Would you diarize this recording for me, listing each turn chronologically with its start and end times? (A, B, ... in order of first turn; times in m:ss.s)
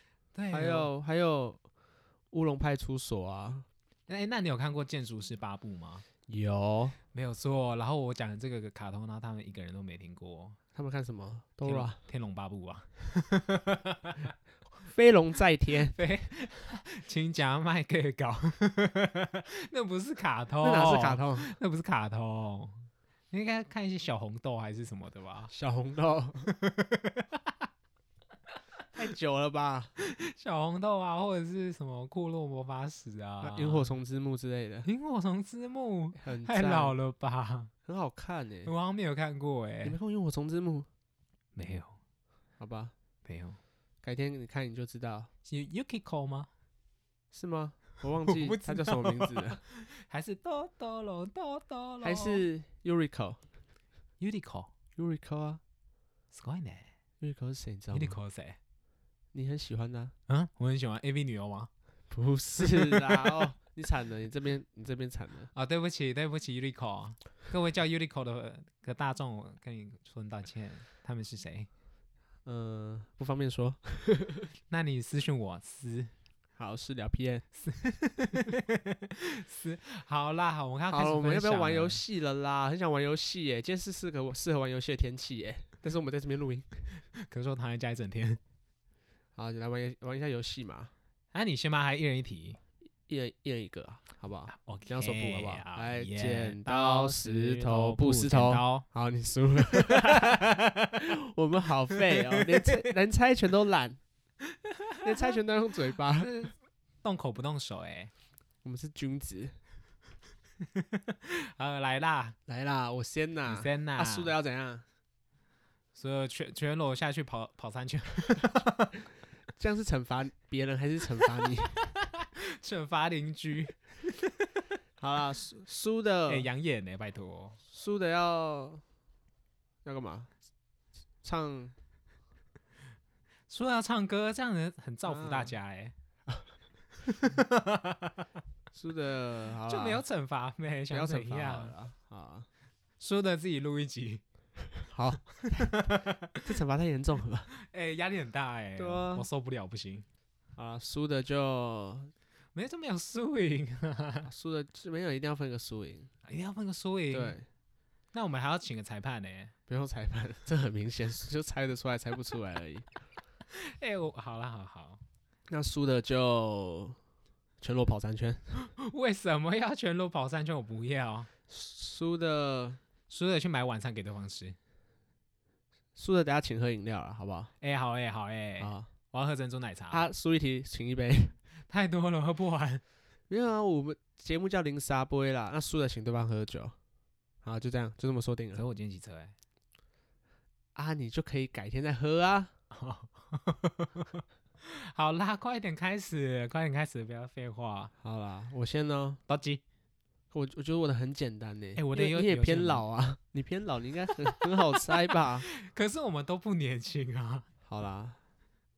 0:00.3-0:00.9 A
0:00.5-0:01.6 B
0:02.3-0:03.7 B
0:04.1-0:06.0 A
0:06.3-0:07.0 B
0:07.1-0:10.6 A
0:10.8-0:12.0 B
0:11.6-0:14.3 A
0:14.8-0:16.0 B
0:15.9-0:25.5 A
0:20.6-0:21.6 B
0:25.5-0:26.5 B
0:26.5-0:27.5 A
0:28.9-0:29.9 B
0:30.0-0:34.0 A
0:33.4-0:34.9 B
0:34.8-0:37.7 A
0:36.2-0:37.0 B
0:37.9-0:38.7 B
0:38.7-0:40.0 A
0:39.8-0:40.9 B
0:41.6-0:42.0 A
0:42.6-0:42.9 B
0:43.2-0:43.6 A
0:44.0-0:45.3 B
0:45.4-0:46.5 A
0:47.3-0:49.6 B
0:48.3-0:52.4 A
0:52.0-0:53.4 B
0:54.2-0:54.7 A
0:55.0-0:55.6 B
0:56.3-0:56.9 A
0:57.2-0:58.2 B
0:57.9-0:58.6 A
0:59.3-1:00.2 B
1:00.3-1:01.7 A
1:02.1-1:05.5 B
1:02.6-1:03.2 A
1:05.5-1:11.7 A
1:12.5-1:14.5 B
1:14.7-1:16.1 A
1:16.6-1:17.5 B
1:17.6-1:22.0 A
1:20.9-1:26.9 B
1:27.2-1:28.4 A
1:29.4-1:30.9 B
1:31.3-1:32.6 A
1:33.1-1:44.0 B
1:34.5-1:38.8 A
1:39.7-1:40.9 A
1:42.0-1:42.8 A
1:44.5-1:45.0 A
1:45.0-1:46.3 B
1:46.1-1:48.1 A
1:48.6-1:49.6 B
1:50.6-1:52.4 A
1:52.5-1:54.8 B
1:53.5-1:54.3 A
1:55.9-1:59.0 A
1:59.6-2:01.8 B
2:01.8-2:04.6 A
2:05.0-2:06.5 B
2:06.3-2:07.6 A
2:07.7-2:08.8 B
2:09.8-2:10.3 B
2:11.2-2:11.7 B
2:13.5-2:15.9 A
2:15.1-2:15.5 B
2:17.1-2:18.3 A
2:18.7-2:20.0 B
2:19.7-2:21.8 A
2:20.9-2:22.5 B
2:23.0-2:24.2 A
2:24.9-2:27.5 B
2:25.5-2:26.4 A
2:27.6-2:30.1 A
2:28.8-2:29.3 B
2:30.6-2:32.1 B
2:32.6-2:34.3 A
2:34.2-2:36.1 B
2:36.2-2:37.4 A
2:37.1-2:37.5 B
2:38.1-2:39.5 A
2:39.7-2:42.9 B
2:43.5-2:45.0 A
2:45.5-2:47.0 B
2:47.6-2:48.7 B
2:48.6-2:51.3 A
2:51.5-2:52.8 B
2:53.1-2:54.6 A
2:56.0-2:57.5 B
2:57.6-3:00.1 A
2:58.6-2:58.9 B
2:59.9-3:01.4 B
3:01.7-3:02.8 A
3:03.3-3:06.8 B
3:07.4-3:08.6 B
3:08.6-3:09.4 A
3:10.8-3:12.5 B
3:12.7-3:17.9 A
3:18.0-3:19.2 B
3:19.3-3:19.6 A
3:20.3-3:25.5 B
3:21.8-3:22.8 A
3:24.4-3:24.9 A
3:25.5-3:27.5 A
3:27.7-3:28.2 B